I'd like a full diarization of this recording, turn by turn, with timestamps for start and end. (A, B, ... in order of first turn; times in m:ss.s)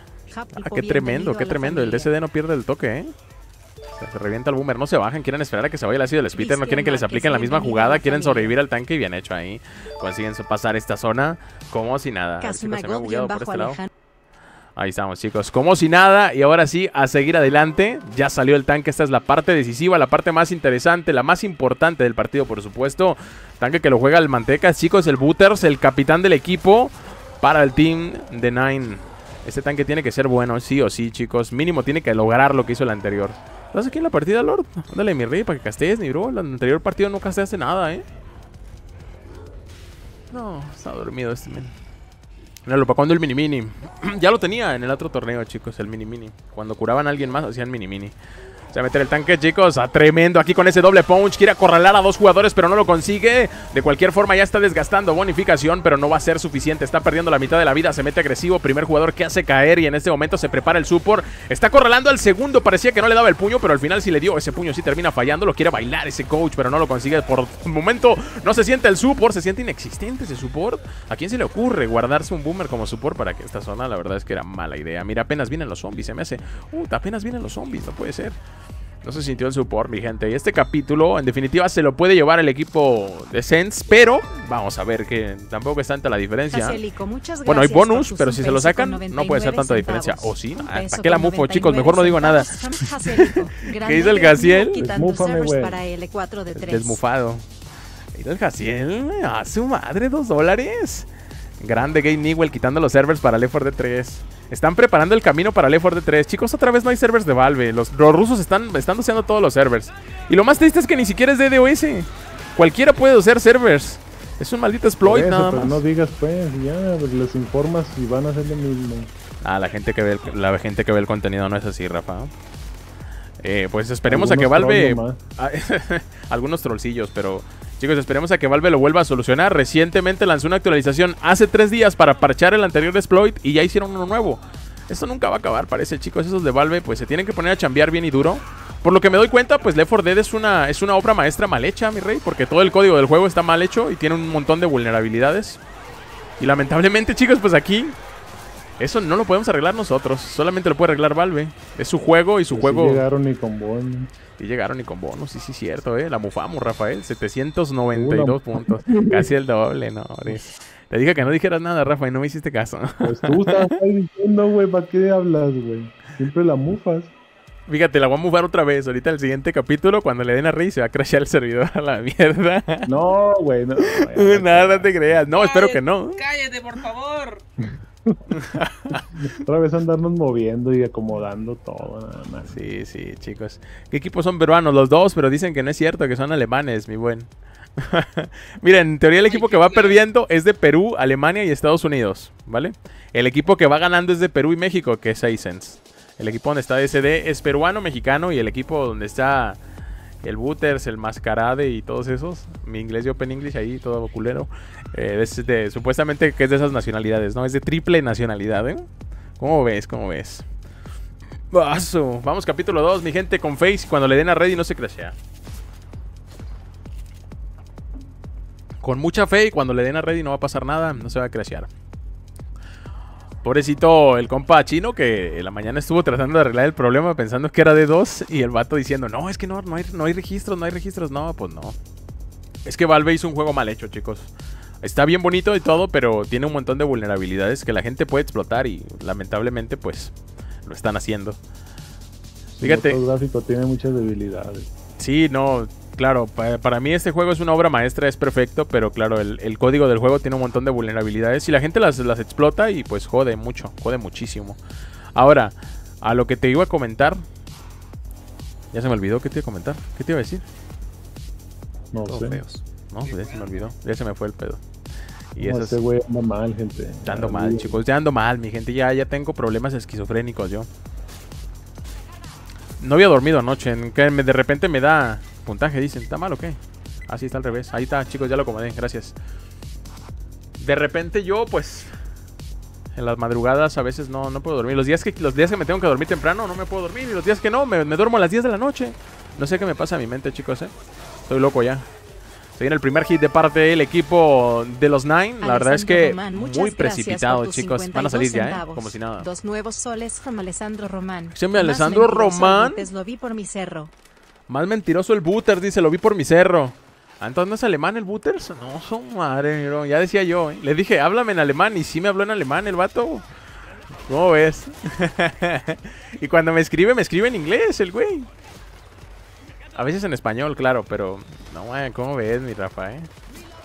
0:00.3-0:02.1 A
0:00.6-0:03.1 B
0:04.0-0:13.8 B
0:06.4-0:08.5 A
0:12.4-0:13.9 A
0:14.8-0:38.0 B
0:40.3-0:41.7 B
0:42.7-0:48.1 B
0:48.7-1:18.4 B
1:19.0-1:26.8 B
1:26.5-1:37.0 A
1:27.5-1:34.9 B
1:34.7-1:35.8 C
1:36.6-1:37.4 B
1:38.1-1:41.1 B
1:41.6-1:55.8 B
1:55.0-1:59.1 C
1:59.4-2:02.3 B
2:03.4-2:25.6 B
2:04.1-2:05.2 C
2:26.4-2:28.0 B
2:28.8-2:33.0 B
2:32.5-2:34.1 C
2:34.4-2:43.7 B
2:37.9-2:39.3 C
2:43.0-2:47.1 C
2:47.7-2:52.9 B
2:52.9-2:55.2 C
2:53.8-2:56.2 B
2:55.3-2:57.4 D
2:58.3-2:59.0 B
2:59.2-3:02.6 C
3:02.5-3:19.6 B
3:09.2-3:10.0 D
3:20.2-3:28.9 B
3:29.4-3:30.5 B
3:31.5-3:35.2 B
3:38.8-3:41.7 B
3:43.4-3:51.8 B
3:52.6-3:54.3 B
3:54.8-4:00.1 B
4:00.7-4:01.4 B
4:02.5-4:04.7 C
4:02.6-4:03.0 B
4:05.0-4:14.6 B
4:15.2-4:17.2 B
4:18.7-4:20.4 B
4:21.9-4:22.4 C
4:22.1-4:24.6 B
4:23.0-4:23.8 D
4:25.3-4:25.8 B
4:25.4-4:27.8 C
4:27.1-4:30.7 B
4:32.8-4:39.2 B
4:40.6-4:41.9 B
4:43.0-4:50.7 B
4:51.3-4:51.9 B
4:52.6-4:59.3 B
4:55.4-5:03.9 A
5:01.3-5:02.8 B
5:04.5-5:13.2 B
5:14.1-5:18.3 B
5:19.8-5:23.1 B